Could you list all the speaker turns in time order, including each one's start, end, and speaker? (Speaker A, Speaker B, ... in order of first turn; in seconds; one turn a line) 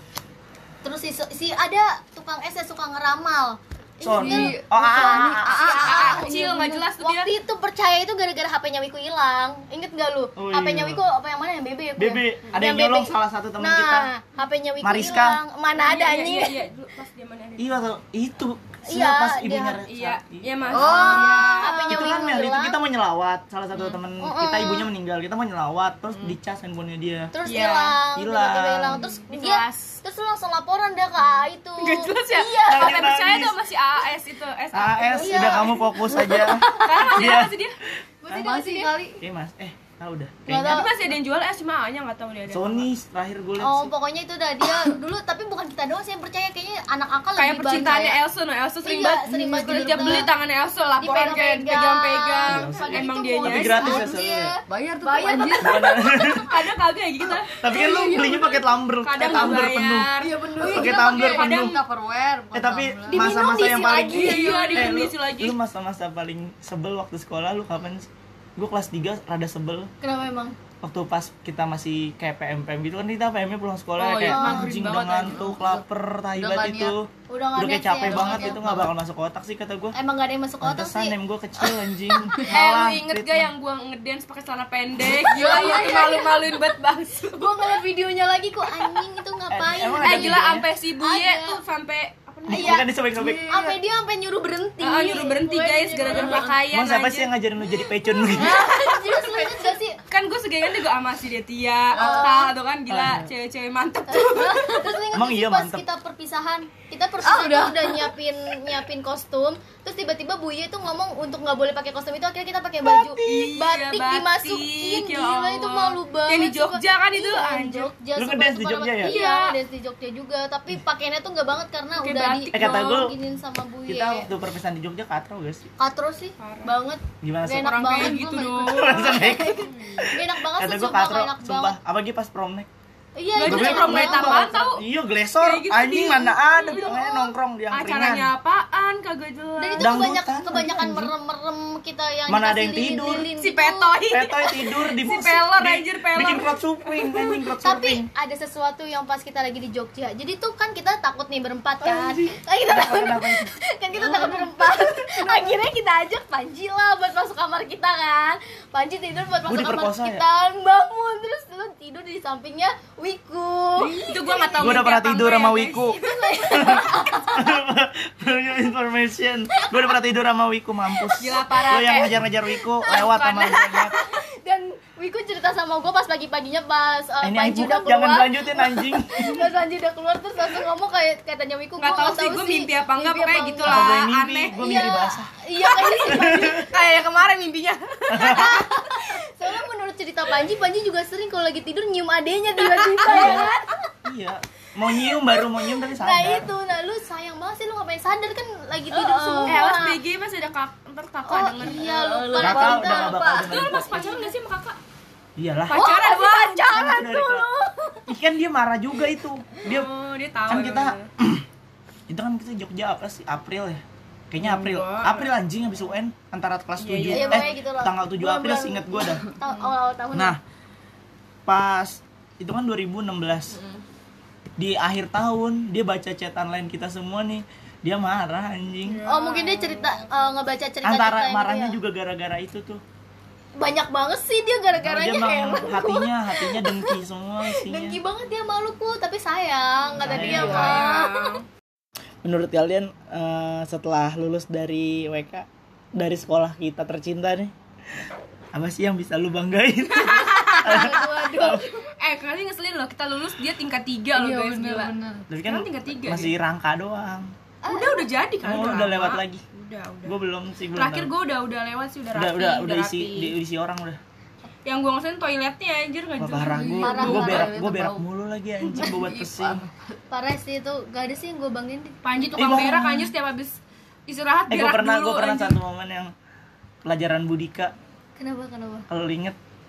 Speaker A: 0.8-6.4
Speaker B: 4.0-5.9
Speaker C: 4.2-6.9
Speaker D: 5.8-7.3
Speaker A: 7.0-16.6
Speaker B: 10.4-11.0
Speaker B: 12.0-14.1
Speaker B: 14.8-15.4
Speaker D: 15.8-17.9
Speaker B: 17.6-20.9
Speaker A: 18.9-19.8
Speaker D: 19.9-22.0
Speaker C: 20.7-21.9
Speaker A: 20.7-22.8
Speaker B: 21.9-27.3
Speaker A: 24.2-24.9
Speaker A: 27.3-33.1
Speaker D: 27.4-28.0
Speaker B: 28.1-29.0
Speaker D: 29.0-30.0
Speaker D: 31.8-37.8
Speaker B: 32.7-33.6
Speaker B: 34.7-37.6
Speaker A: 35.2-36.2
Speaker C: 36.1-37.4
Speaker A: 38.2-39.0
Speaker C: 38.3-39.2
Speaker B: 39.2-40.9
Speaker A: 40.5-41.0
Speaker D: 40.6-42.9
Speaker B: 42.5-43.9
Speaker A: 43.6-48.2
Speaker D: 47.4-54.0
Speaker A: 48.8-50.3
Speaker C: 49.3-50.3
Speaker A: 51.0-56.2
Speaker B: 52.5-54.5
Speaker C: 54.7-55.8
Speaker B: 55.6-56.6
Speaker D: 56.0-57.5
Speaker B: 57.5-61.8
Speaker C: 57.7-58.6
Speaker D: 58.9-61.8
Speaker C: 59.2-59.6
Speaker C: 60.2-63.4
Speaker B: 62.5-69.9
Speaker A: 63.1-65.0
Speaker D: 63.5-65.6
Speaker A: 70.0-70.6
Speaker B: 70.8-80.0
Speaker D: 74.0-75.5
Speaker A: 74.2-74.8
Speaker C: 75.2-77.0
Speaker A: 77.3-78.8
Speaker C: 78.0-78.9
Speaker A: 79.9-82.4
Speaker B: 80.6-83.5
Speaker D: 82.4-87.7
Speaker A: 85.2-86.6
Speaker C: 85.3-86.1
Speaker A: 87.4-91.6
Speaker B: 89.5-90.7
Speaker D: 90.0-92.8
Speaker B: 92.5-93.5
Speaker A: 92.5-92.9
Speaker C: 93.2-93.8
Speaker A: 93.5-96.6
Speaker D: 94.8-97.3
Speaker C: 96.1-96.4
Speaker B: 96.7-98.7
Speaker A: 98.3-100.0
Speaker C: 98.3-99.8
Speaker D: 100.1-104.8
Speaker C: 101.9-102.5
Speaker A: 101.9-102.5
Speaker B: 102.9-103.3
Speaker A: 104.1-124.3
Speaker B: 105.1-105.8
Speaker C: 107.2-108.1
Speaker B: 112.9-113.4
Speaker D: 113.2-117.9
Speaker B: 118.2-119.2
Speaker D: 119.0-119.6
Speaker D: 122.0-123.0
Speaker B: 122.5-123.1
Speaker B: 123.9-125.7
Speaker A: 125.8-131.8
Speaker D: 126.4-126.7
Speaker B: 127.2-127.8
Speaker D: 127.5-130.1
Speaker B: 128.6-132.7
Speaker A: 133.2-134.6
Speaker D: 133.3-134.9
Speaker B: 133.4-138.3
Speaker D: 135.4-140.1
Speaker A: 136.7-137.1
Speaker A: 139.6-144.0
Speaker B: 139.8-141.1
Speaker B: 142.3-143.3
Speaker D: 143.1-147.3
Speaker B: 144.1-148.1
Speaker A: 147.6-164.9
Speaker B: 151.8-153.6
Speaker C: 154.1-154.5
Speaker B: 159.4-160.2
Speaker D: 163.8-166.1
Speaker C: 163.9-164.7
Speaker B: 164.6-174.0
Speaker A: 165.7-167.6
Speaker A: 169.6-169.9
Speaker D: 171.2-172.1
Speaker D: 172.8-173.9
Speaker A: 172.9-184.0
Speaker B: 177.2-179.5
Speaker D: 181.8-185.1
Speaker B: 183.6-185.3
Speaker A: 184.6-186.7
Speaker D: 185.7-189.2
Speaker B: 186.1-186.7
Speaker B: 188.1-188.6
Speaker A: 188.2-193.7
Speaker D: 192.6-193.6
Speaker B: 193.1-193.5
Speaker B: 194.0-196.5
Speaker A: 195.1-200.0
Speaker D: 198.9-201.9
Speaker C: 199.3-199.7
Speaker A: 201.3-204.3
Speaker C: 201.6-203.7
Speaker B: 202.4-203.9
Speaker D: 203.4-204.8
Speaker B: 205.4-205.8
Speaker D: 205.7-206.9
Speaker A: 205.7-208.1
Speaker B: 206.7-207.5
Speaker B: 208.1-209.9
Speaker D: 209.6-211.1
Speaker B: 210.5-211.4
Speaker B: 212.1-219.2
Speaker D: 214.4-215.3
Speaker D: 216.8-217.5
Speaker A: 217.1-220.4
Speaker D: 219.4-219.7
Speaker B: 220.1-220.4
Speaker B: 221.5-223.6
Speaker B: 224.6-229.0
Speaker D: 228.9-230.0
Speaker A: 229.1-231.8
Speaker B: 230.8-232.8
Speaker A: 233.6-241.4
Speaker B: 234.8-238.0
Speaker B: 240.0-240.9
Speaker C: 240.0-240.8
Speaker D: 240.2-241.5
Speaker B: 242.2-247.5
Speaker B: 248.5-251.7
Speaker D: 249.9-250.9
Speaker A: 250.5-251.8
Speaker D: 252.0-256.3
Speaker C: 254.2-255.3
Speaker B: 255.3-257.3
Speaker A: 257.6-258.0
Speaker D: 257.7-260.2
Speaker B: 258.4-259.4
Speaker B: 260.0-261.1
Speaker D: 260.7-263.3
Speaker B: 262.1-264.0
Speaker D: 264.6-267.4
Speaker B: 266.2-269.6
Speaker C: 266.5-268.0
Speaker A: 266.8-267.6
Speaker C: 268.6-269.7
Speaker A: 270.1-272.2
Speaker D: 272.0-275.6
Speaker B: 272.4-273.1
Speaker B: 274.5-276.1
Speaker B: 276.8-277.7
Speaker A: 278.2-278.9
Speaker B: 278.9-279.4